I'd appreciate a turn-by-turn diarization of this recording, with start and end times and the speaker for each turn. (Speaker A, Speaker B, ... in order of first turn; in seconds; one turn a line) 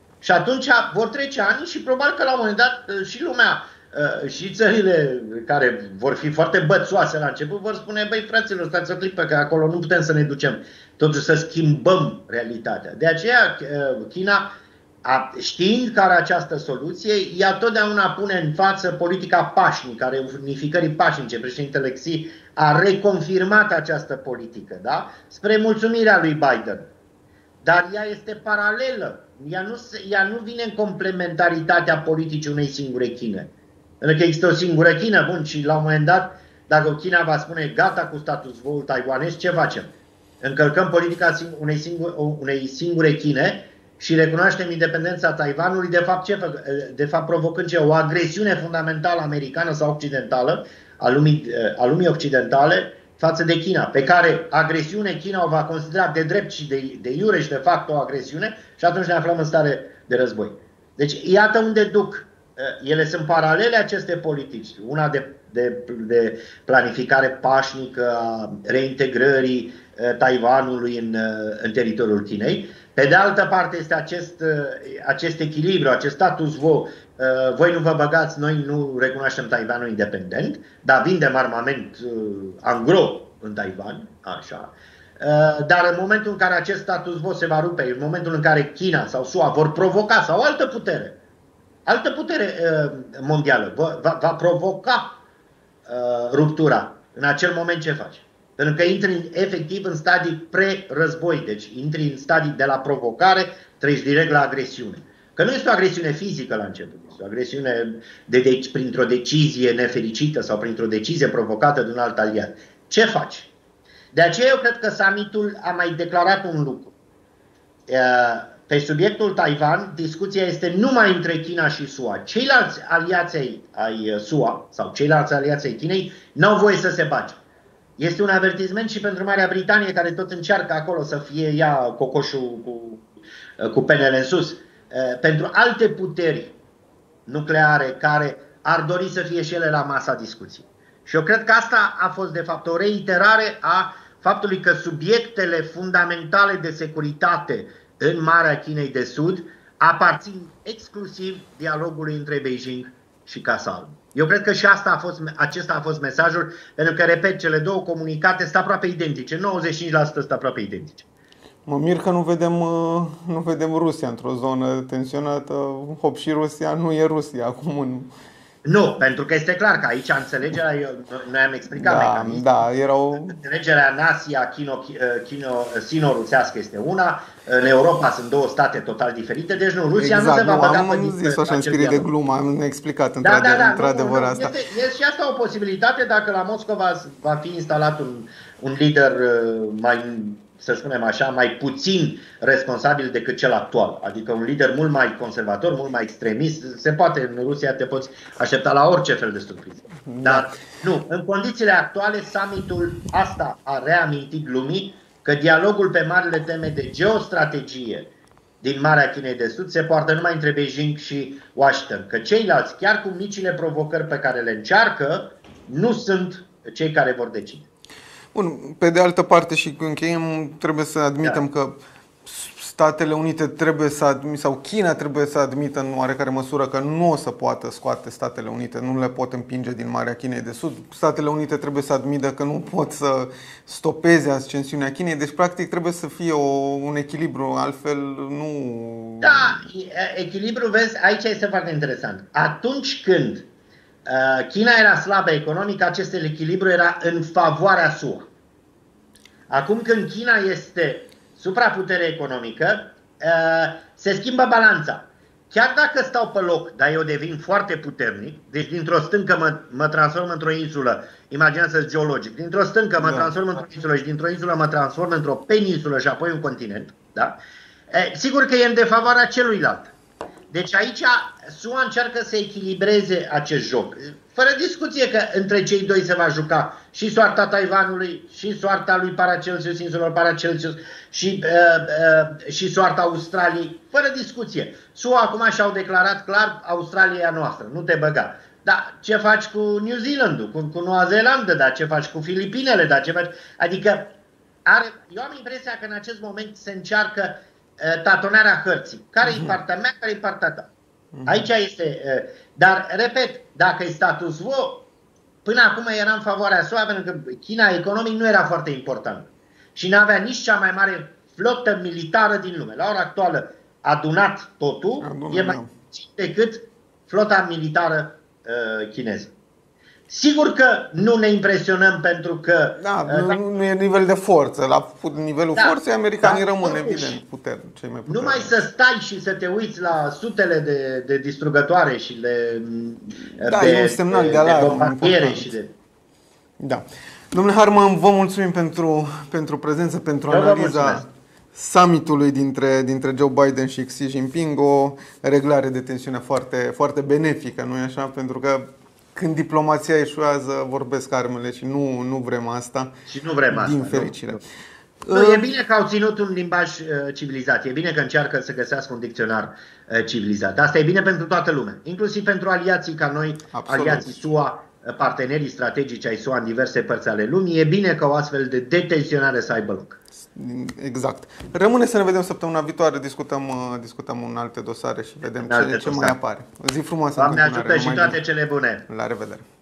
Speaker A: 0.2-14.5
Speaker A: 15.0-26.9
Speaker A: 27.6-91.2
Speaker A: 91.8-95.2
Speaker A: 95.8-113.5
Speaker A: 114.1-116.9
Speaker A: 117.9-127.4
Speaker A: 128.0-133.0
Speaker A: 133.6-136.6
Speaker A: 137.3-161.1
Speaker B: 161.7-168.1
Speaker A: 168.6-172.5
Speaker B: 171.8-173.4
Speaker A: 173.2-182.1
Speaker B: 180.0-184.6
Speaker A: 183.2-217.7
Speaker B: 200.1-200.6
Speaker B: 218.3-239.6
Speaker A: 239.2-243.5
Speaker A: 244.1-248.3
Speaker A: 249.5-267.4
Speaker B: 263.0-263.3
Speaker A: 267.9-269.9
Speaker A: 270.5-294.1
Speaker A: 294.6-300.7
Speaker B: 299.2-299.6
Speaker B: 301.1-301.5
Speaker A: 301.3-304.9
Speaker A: 305.4-319.3
Speaker B: 315.0-315.7
Speaker A: 320.1-323.4
Speaker B: 322.8-328.6
Speaker A: 325.6-327.2
Speaker A: 328.1-335.7
Speaker B: 333.4-335.5
Speaker B: 336.6-354.4
Speaker A: 340.3-341.0
Speaker A: 353.1-354.4
Speaker B: 355.0-355.4
Speaker A: 355.1-370.0
Speaker B: 363.5-364.2
Speaker B: 370.3-378.2
Speaker A: 375.4-376.2
Speaker A: 377.1-378.9
Speaker B: 378.9-379.5